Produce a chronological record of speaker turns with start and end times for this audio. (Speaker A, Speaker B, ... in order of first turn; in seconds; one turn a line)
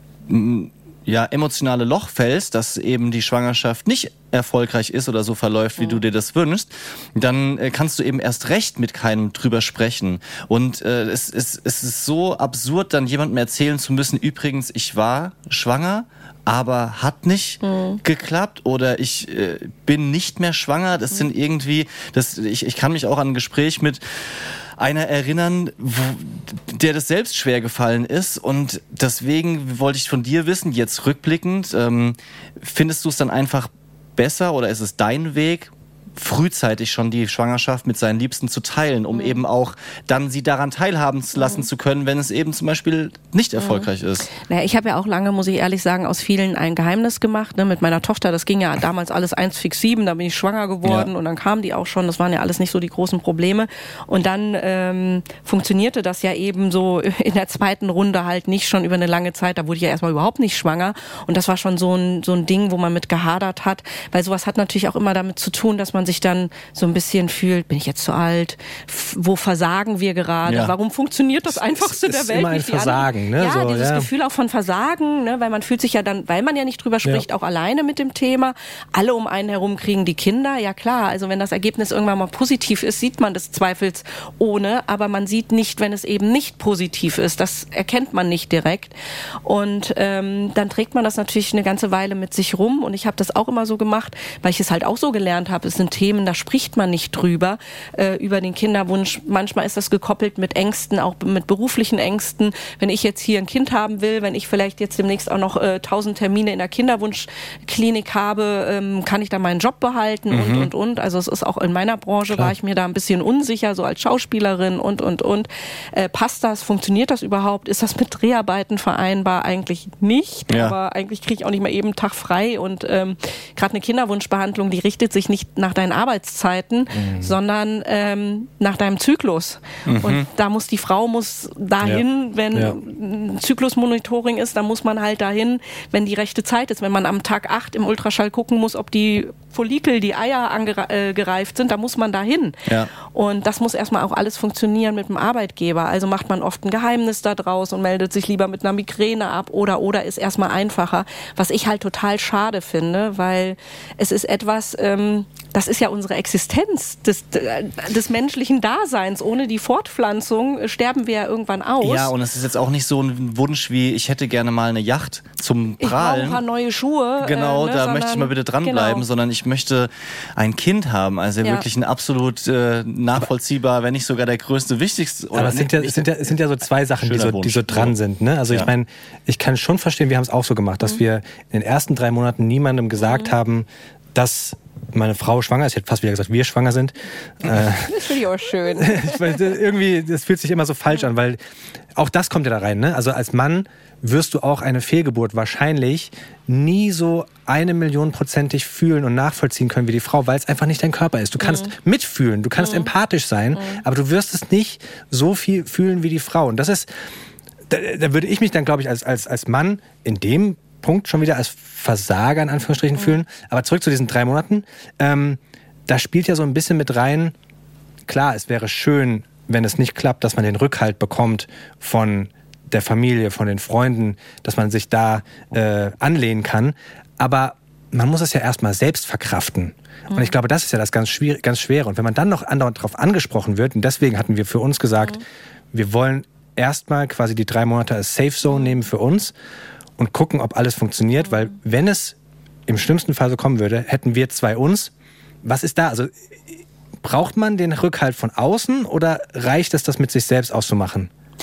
Speaker A: 0.3-24.0
Speaker B: 17.6-18.0
Speaker A: 24.8-44.3
Speaker B: 39.1-39.4
Speaker B: 41.4-41.6
Speaker B: 43.6-88.9
Speaker A: 50.8-51.1
Speaker A: 70.5-70.7
Speaker C: 71.5-74.1
Speaker B: 89.4-162.1
Speaker A: 110.3-110.7
Speaker C: 112.3-112.5
Speaker A: 120.5-120.7
Speaker C: 126.9-127.3
Speaker A: 129.9-130.2
Speaker A: 161.8-166.4
Speaker B: 165.8-169.1
Speaker A: 167.2-176.3
Speaker C: 175.3-188.1
Speaker A: 177.0-177.9
Speaker B: 183.0-183.3
Speaker B: 187.7-189.4
Speaker C: 188.8-191.4
Speaker C: 191.9-206.9
Speaker B: 201.4-201.7
Speaker B: 202.6-202.9
Speaker B: 203.5-203.8
Speaker C: 207.7-217.3
Speaker C: 218.1-239.3
Speaker B: 230.1-230.3
Speaker C: 240.0-242.2
Speaker C: 242.7-244.9
Speaker C: 245.4-246.1
Speaker C: 247.0-251.1